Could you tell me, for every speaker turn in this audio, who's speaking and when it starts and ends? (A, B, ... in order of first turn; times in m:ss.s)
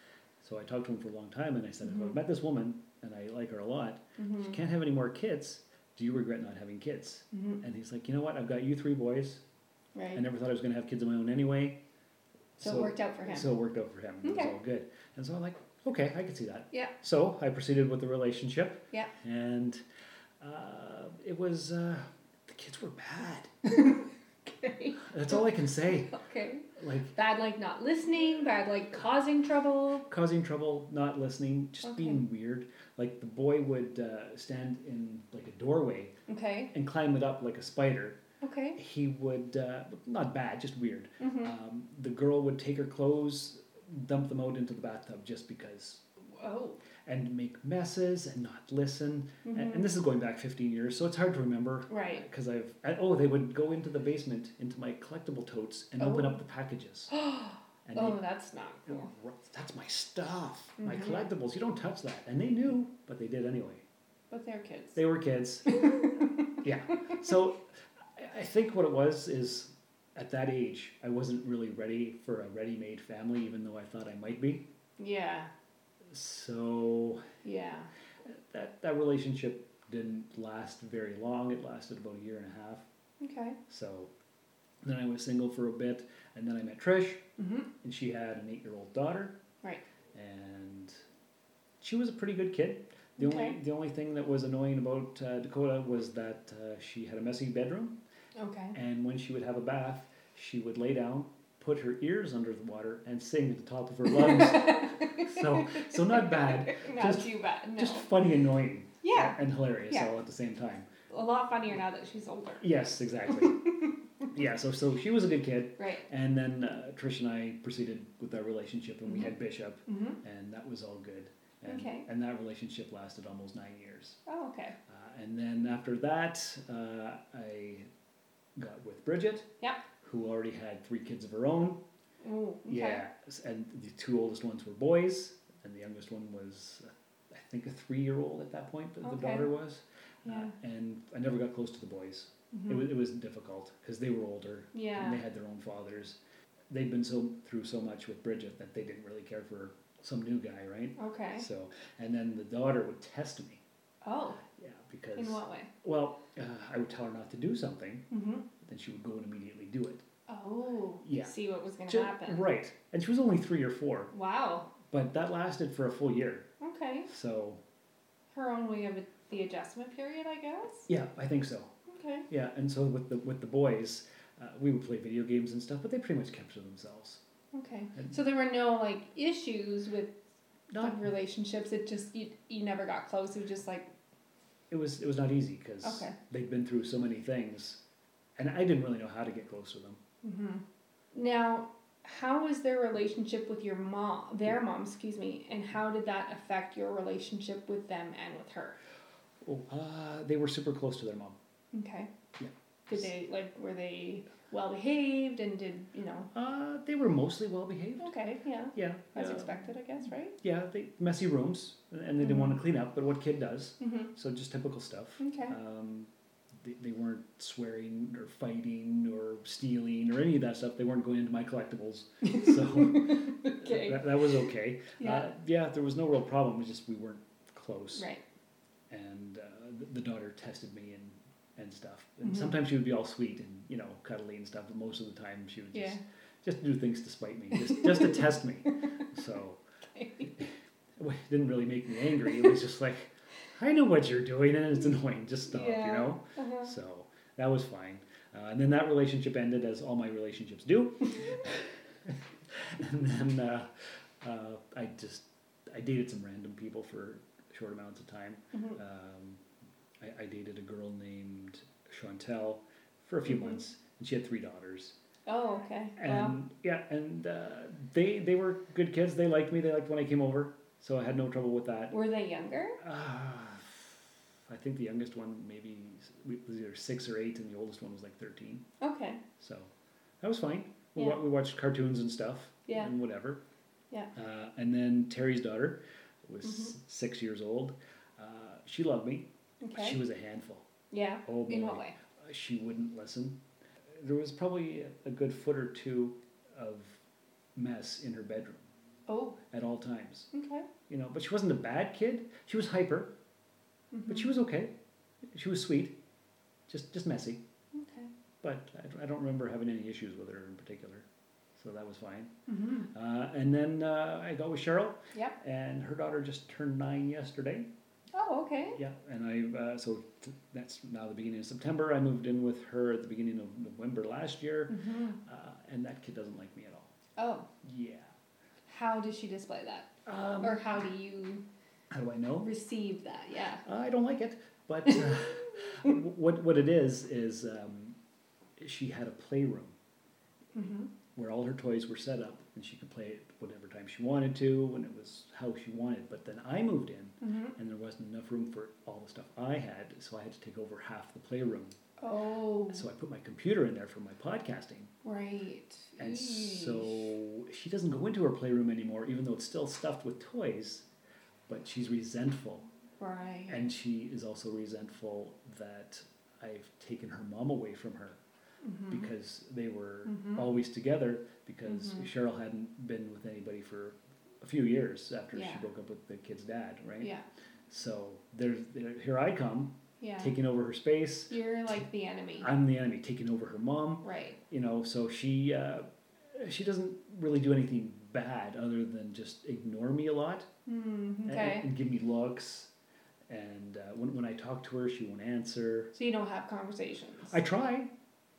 0:00.4-0:09.4 A
0:01.9-0:02.1 B
0:04.2-0:04.6 B
0:07.3-0:07.6 B
0:10.0-0:10.2 B
0:10.2-0:11.8 A
0:12.6-0:19.8 A
0:12.6-0:13.5 B
0:14.2-0:14.6 B
0:20.4-0:23.6 A
0:23.7-0:30.1 B
0:25.0-0:26.1 A
0:26.8-0:27.1 A
0:30.1-0:36.2 A
0:31.8-0:32.2 B
0:36.3-0:36.7 B
0:36.7-0:38.2 A
0:38.4-0:38.8 B
0:38.8-0:46.0 A
0:41.2-0:41.5 B
0:46.4-0:46.8 B
0:47.0-0:57.1 A
0:49.4-0:49.9 B
0:51.9-0:52.2 B
0:56.0-0:56.4 B
0:57.1-0:59.1 B
0:57.9-0:58.2 A
0:58.9-1:03.8 A
1:00.8-1:01.3 B
1:04.3-1:05.0 B
1:05.0-1:05.8 A
1:05.7-1:06.4 B
1:06.6-1:07.6 A
1:08.2-1:14.7 A
1:15.0-1:15.5 B
1:16.1-1:17.3 A
1:17.4-1:17.9 B
1:18.3-1:22.9 A
1:23.2-1:23.6 B
1:23.7-1:24.1 A
1:24.8-1:27.2 A
1:27.4-1:27.7 B
1:27.8-1:29.4 A
1:30.1-1:31.0 A
1:31.8-1:38.0 A
1:33.2-1:33.6 B
1:38.4-1:38.8 B
1:38.7-1:50.9 A
1:44.1-1:48.1 B
1:49.0-1:50.1 B
1:51.1-1:52.7 B
1:52.6-1:53.6 A
1:53.3-1:54.2 B
1:54.3-2:04.2 A
1:55.8-1:56.1 B
1:59.9-2:00.2 B
2:01.7-2:02.1 B
2:04.3-2:04.8 B
2:04.9-2:07.9 A
2:08.6-2:09.5 A
2:10.0-2:11.8 A
2:12.2-2:13.0 B
2:12.7-2:26.2 A
2:19.0-2:19.5 B
2:20.2-2:20.5 B
2:22.5-2:22.9 B
2:24.7-2:25.2 B
2:26.7-2:33.6 A
2:31.0-2:31.5 B
2:34.0-2:34.4 B
2:34.6-2:38.1 A
2:35.2-2:35.7 B
2:38.1-2:38.5 B
2:38.6-2:40.0 A
2:40.3-2:42.4 B
2:41.0-2:44.1 A
2:44.1-2:44.7 B
2:44.8-2:46.5 A
2:46.6-2:47.1 B
2:47.1-2:47.6 A
2:48.3-2:50.9 B
2:50.9-2:51.7 A
2:51.9-2:52.3 B
2:52.3-2:57.2 A
2:57.5-3:00.2 B
3:00.7-3:01.1 A
3:00.8-3:03.9 B
3:04.7-3:07.8 A
3:05.8-3:06.2 B
3:08.4-3:10.0 A
3:10.2-3:18.8 B
3:19.4-3:21.4 A
3:21.7-3:22.1 B
3:22.4-3:23.1 A
3:22.9-3:26.3 B
3:26.3-3:28.1 A
3:28.0-3:30.4 B
3:28.7-3:29.6 A
3:30.4-3:48.1 A
3:32.2-3:32.6 B
3:33.8-3:34.1 B
3:35.2-3:35.6 B
3:42.3-3:45.3 B
3:48.0-3:48.2 B
3:48.9-3:59.6 A
3:52.3-3:52.5 B
3:55.7-3:56.0 B
3:57.6-3:58.3 B
3:59.9-4:00.4 B
4:00.4-4:19.4 A
4:05.5-4:06.7 B
4:18.5-4:18.8 B
4:20.0-4:25.0 A
4:23.3-4:23.6 B
4:25.3-4:26.4 B
4:26.0-4:32.0 A
4:31.9-4:32.8 B
4:32.8-4:38.7 A
4:38.8-4:39.2 B
4:39.4-4:43.4 A
4:44.2-4:50.7 A
4:46.4-4:46.8 B
4:49.6-4:50.0 B
4:50.9-4:52.0 B
4:51.2-4:53.4 A
4:53.9-4:57.0 A
4:57.6-4:58.7 A
4:59.1-4:59.4 B
4:59.5-5:00.3 A
5:00.3-5:00.7 B
5:00.9-5:03.1 A
5:03.9-5:04.3 B
5:04.1-5:04.7 A
5:05.3-5:06.0 A
5:06.7-5:07.4 A
5:07.7-5:08.1 B
5:08.4-5:12.3 A
5:12.5-5:12.9 B
5:12.9-5:17.7 A
5:18.1-5:18.8 B
5:18.8-5:26.9 A
5:24.7-5:25.2 B
5:27.2-5:27.5 B
5:27.6-5:28.1 A
5:28.7-5:31.4 B
5:30.0-5:30.7 A
5:31.9-5:32.5 A
5:32.4-5:33.6 B
5:33.6-5:38.0 A
5:38.6-5:39.8 A
5:40.5-5:40.9 B
5:41.2-5:51.8 A
5:47.2-5:47.6 B
5:52.0-5:52.9 B
5:52.7-5:54.9 A
5:55.0-5:57.1 B
5:56.0-6:00.9 A
6:01.5-6:02.7 A
6:03.0-6:03.6 B
6:03.5-6:08.2 A
6:08.6-6:09.1 B
6:08.9-6:17.1 A
6:10.1-6:10.5 B
6:11.7-6:12.1 B
6:15.3-6:15.6 B
6:17.0-6:17.2 B
6:17.7-6:21.7 A
6:20.0-6:20.4 B
6:21.3-6:22.5 B
6:22.4-6:30.5 A
6:24.0-6:24.4 B
6:30.7-6:31.7 B
6:31.3-6:32.7 A
6:33.3-6:35.9 A
6:35.9-6:37.4 B
6:37.3-6:37.9 A